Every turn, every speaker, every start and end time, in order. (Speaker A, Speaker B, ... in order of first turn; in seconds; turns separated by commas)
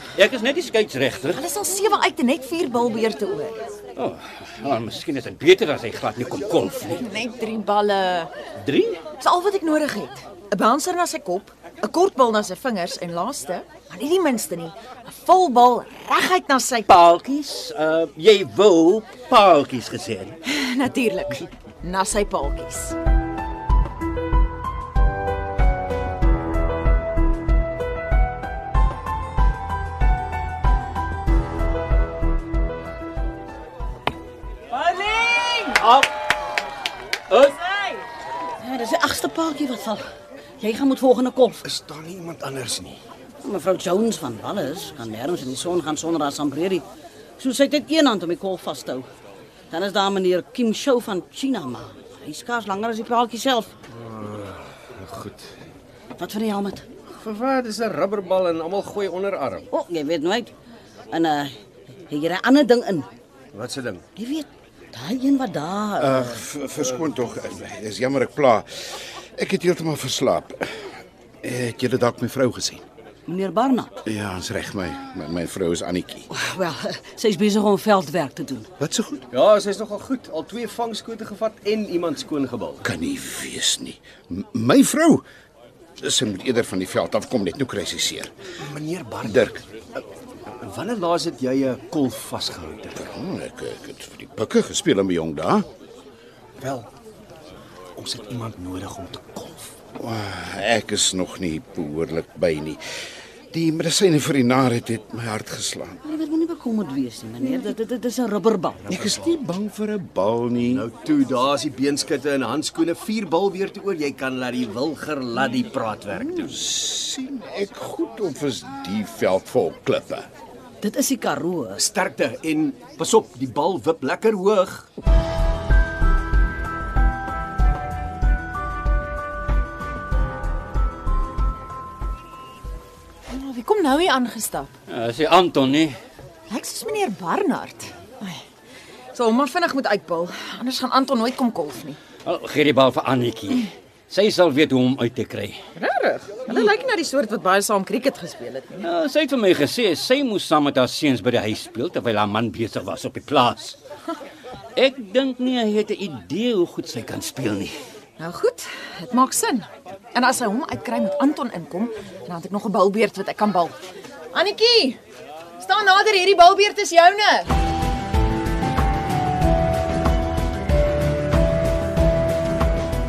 Speaker A: 0.1-1.4, Speaker B: 1.3-3.6, Speaker A: 4.0-7.0, Speaker B: 7.0-8.3, Speaker A: 8.6-9.0, Speaker B: 9.2-16.9, Speaker A: 16.9-20.4, Speaker B: 20.4-22.9, Speaker B: 34.7-35.7, Speaker A: 35.8-36.0, Speaker C: 38.6-40.1, Speaker C: 40.6-41.6, Speaker D: 41.6-43.0, Speaker C: 43.4-46.8, Speaker C: 47.4-49.0, Speaker C: 49.7-53.7, Speaker D: 53.9-55.5, Speaker C: 56.2-56.9, Speaker D: 57.2-59.6, Speaker C: 59.7-60.5, Speaker C: 61.1-61.5, Speaker C: 62.1-63.1, Speaker D: 63.5-64.0, Speaker C: 64.2-66.4, Speaker E: 66.0-70.7, Speaker E: 71.4-72.8, Speaker C: 73.3-73.9, Speaker E: 74.0-76.3, Speaker C: 76.3-78.7, Speaker E: 78.8-79.2, Speaker D: 79.3-82.9, Speaker E: 82.8-85.2, Speaker E: 86.0-88.3, Speaker D: 88.6-93.0, Speaker E: 89.2-89.6, Speaker E: 93.0-95.7, Speaker D: 96.6-96.9, Speaker D: 98.0-99.7, Speaker E: 100.0-102.8, Speaker E: 103.5-106.0, Speaker C: 106.0-108.8, Speaker D: 108.8-109.4, Speaker E: 108.9-110.8, Speaker D: 110.6-116.6, Speaker E: 116.3-120.3, Speaker C: 120.8-121.8, Speaker D: 121.7-124.9, Speaker B: 133.3-134.7, Speaker A: 134.9-136.0, Speaker B: 136.5-138.4, Speaker B: 139.1-142.0, Speaker A: 142.2-145.6, Speaker B: 145.8-148.8, Speaker A: 148.8-153.8, Speaker A: 154.7-157.7, Speaker B: 158.2-163.8, Speaker B: 164.3-165.0, Speaker B: 165.6-167.5